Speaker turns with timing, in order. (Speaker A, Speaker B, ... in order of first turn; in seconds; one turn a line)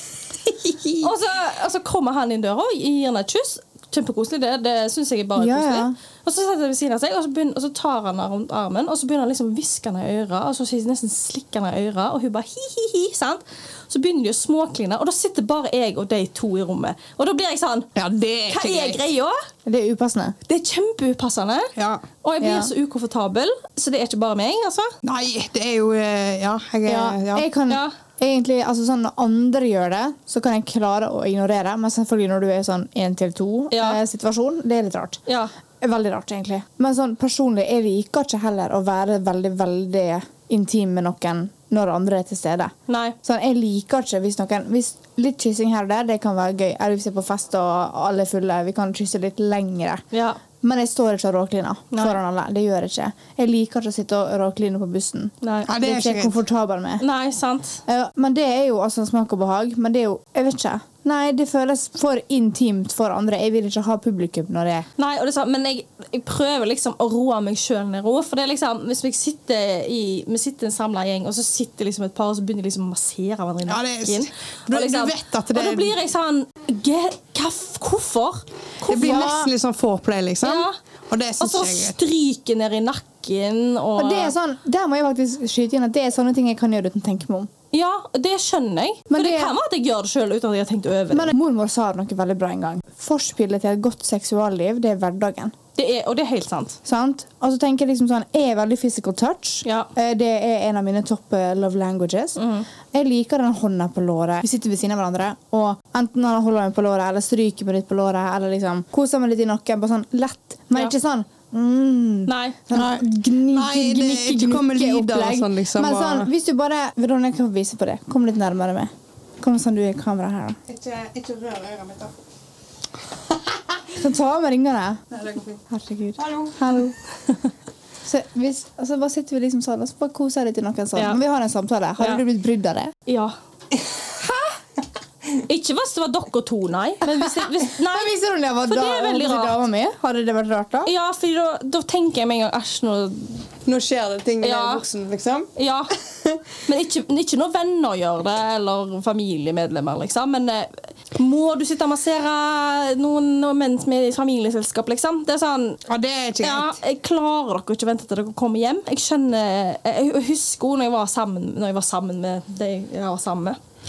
Speaker A: 0.4-1.1
Speaker B: 1.0-17.9
Speaker C: 5.4-5.9
Speaker A: 17.9-19.1
Speaker B: 18.5-19.4
Speaker C: 19.6-20.4
Speaker B: 20.5-24.9
Speaker A: 21.8-22.0
Speaker C: 22.4-22.7
Speaker A: 25.0-27.5
Speaker C: 26.9-35.2
Speaker B: 33.7-34.0
Speaker C: 35.8-42.7
Speaker B: 42.9-43.1
Speaker C: 43.2-50.0
Speaker B: 50.1-50.4
Speaker C: 50.6-57.0
Speaker B: 51.9-52.2
Speaker B: 55.4-55.7
Speaker A: 55.7-56.4
Speaker B: 57.0-57.8
Speaker C: 57.9-64.9
Speaker B: 65.0-79.3
Speaker A: 73.7-76.0
Speaker C: 78.9-79.5
Speaker A: 78.9-82.0
Speaker B: 80.4-80.8
Speaker B: 81.4-84.3
Speaker C: 84.0-87.5
Speaker B: 87.7-91.3
Speaker C: 89.1-89.5
Speaker C: 91.1-95.5
Speaker B: 95.8-96.8
Speaker C: 96.8-102.4
Speaker B: 102.4-102.7
Speaker C: 102.9-120.6
Speaker B: 112.3-112.6
Speaker A: 112.7-116.3
Speaker A: 120.7-122.1
Speaker A: 123.3-123.6
Speaker C: 123.9-125.0
Speaker A: 125.1-125.6
Speaker C: 125.7-127.0
Speaker A: 126.2-126.6
Speaker C: 128.0-132.9
Speaker B: 133.1-133.3
Speaker B: 135.4-139.6
Speaker C: 137.2-140.9
Speaker B: 140.9-143.5
Speaker A: 143.7-145.5
Speaker B: 144.4-144.8
Speaker B: 145.6-145.9
Speaker A: 146.1-146.4
Speaker B: 146.7-155.8
Speaker A: 155.9-156.8
Speaker B: 156.4-163.6